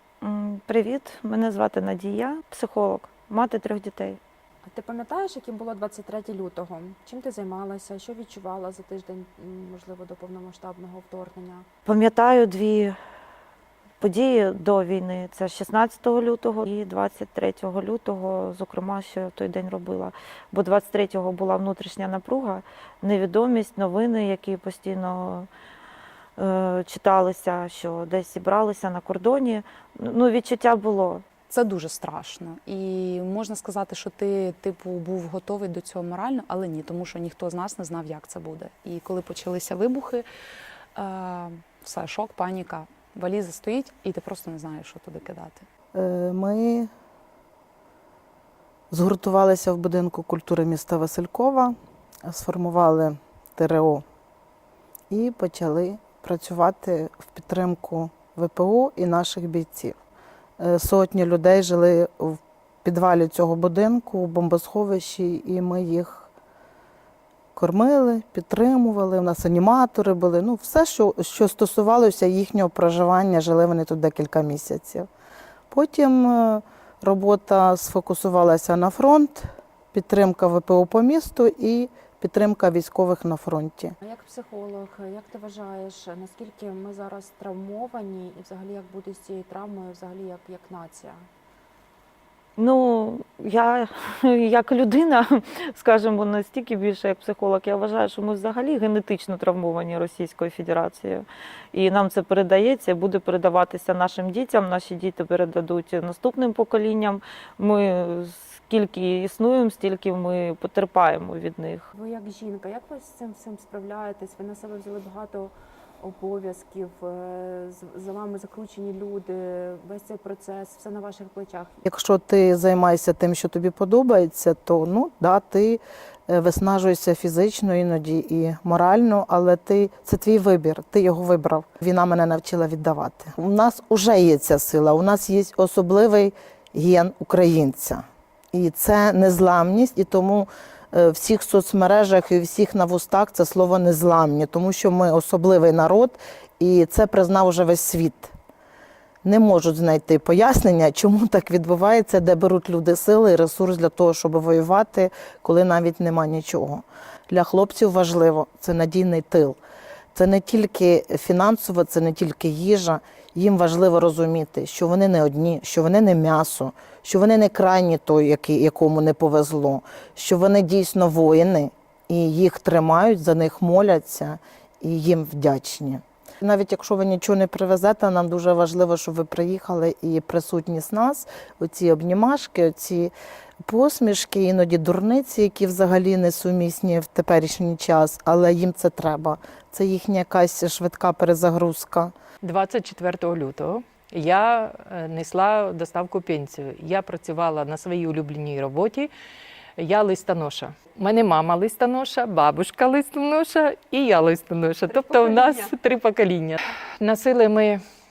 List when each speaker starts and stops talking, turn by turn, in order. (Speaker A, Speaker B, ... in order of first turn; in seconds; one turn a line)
Speaker A: 0.2-4.2
Speaker B: 4.6-11.7
Speaker A: 11.8-12.9
Speaker A: 14.0-25.5
Speaker A: 26.4-31.3
Speaker C: 31.5-40.2
Speaker C: 40.9-45.6
Speaker D: 45.9-46.9
Speaker D: 48.9-54.0
Speaker D: 55.1-60.0
Speaker D: 60.6-66.3
Speaker D: 67.5-75.1
Speaker D: 75.7-83.9
Speaker B: 84.0-91.3
Speaker A: 92.6-111.9
Speaker B: 111.9-121.8
Speaker D: 121.8-148.3
Speaker D: 149.2-159.6
Speaker D: 160.1-183.1
Speaker D: 183.7-192.1
Speaker E: 192.4-199.1
Speaker E: 199.8-207.8
Speaker B: 204.9-205.7